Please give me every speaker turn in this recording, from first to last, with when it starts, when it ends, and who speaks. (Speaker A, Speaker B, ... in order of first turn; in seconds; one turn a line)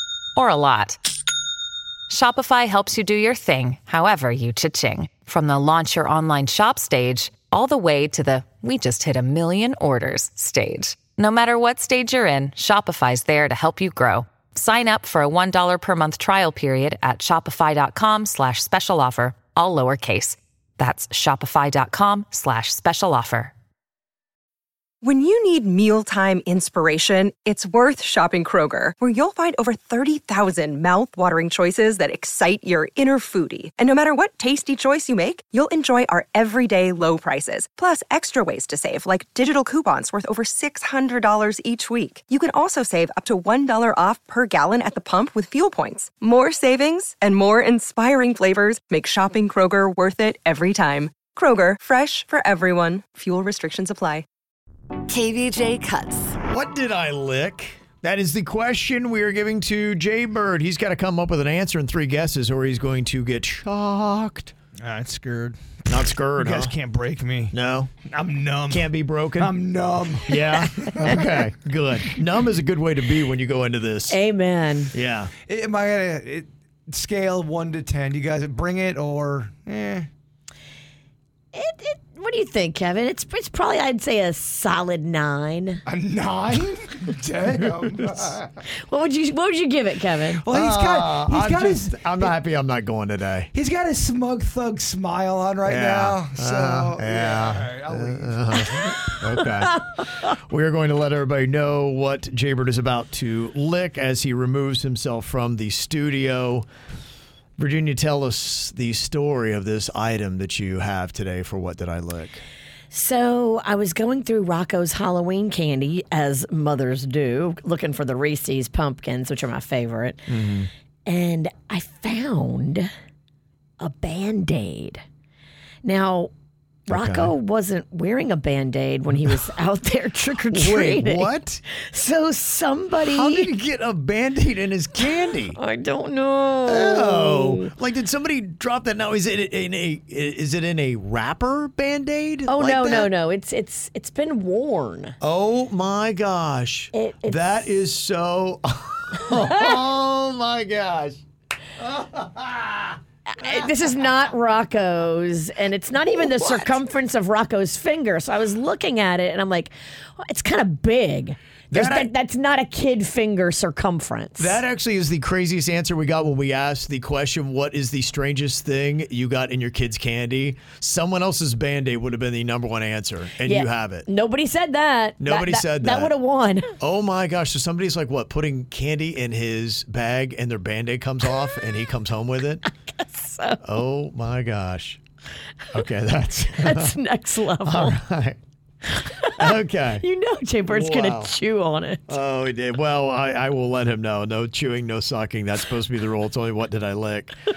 Speaker A: 0.3-1.0
Speaker A: 2.1-23.5
Speaker B: 25.0-54.3
Speaker C: 55.0-56.4
Speaker D: 56.5-64.5
Speaker E: 64.8-67.5
Speaker D: 65.9-66.8
Speaker D: 67.5-67.9
Speaker E: 68.1-71.4
Speaker D: 68.7-69.5
Speaker D: 70.2-74.2
Speaker C: 74.1-74.9
Speaker D: 74.9-75.3
Speaker E: 75.5-80.1
Speaker C: 81.5-85.8
Speaker E: 85.9-88.6
Speaker C: 88.7-90.4
Speaker E: 90.4-92.3
Speaker D: 90.5-93.5
Speaker E: 93.5-98.8
Speaker D: 95.6-106.7
Speaker C: 98.7-99.5
Speaker D: 107.6-112.4
Speaker C: 112.9-120.3
Speaker D: 120.3-120.7
Speaker C: 121.1-122.9
Speaker C: 123.8-125.0
Speaker C: 125.8-126.3
Speaker C: 126.9-133.5
Speaker D: 126.9-127.3
Speaker D: 130.5-131.6
Speaker D: 133.0-135.6
Speaker C: 135.0-137.7
Speaker D: 136.7-143.1
Speaker C: 142.5-145.2
Speaker D: 145.2-151.2
Speaker C: 146.9-147.8
Speaker D: 151.8-153.5
Speaker C: 153.3-164.6
Speaker D: 156.1-156.8
Speaker D: 161.7-162.1
Speaker D: 164.4-174.1
Speaker C: 173.4-176.7
Speaker D: 175.2-176.1
Speaker D: 176.8-182.7
Speaker C: 182.8-183.6
Speaker D: 183.6-185.0
Speaker D: 185.7-187.0
Speaker C: 186.5-188.0
Speaker D: 187.6-190.0
Speaker C: 189.1-192.2
Speaker D: 190.6-191.3
Speaker D: 192.1-197.3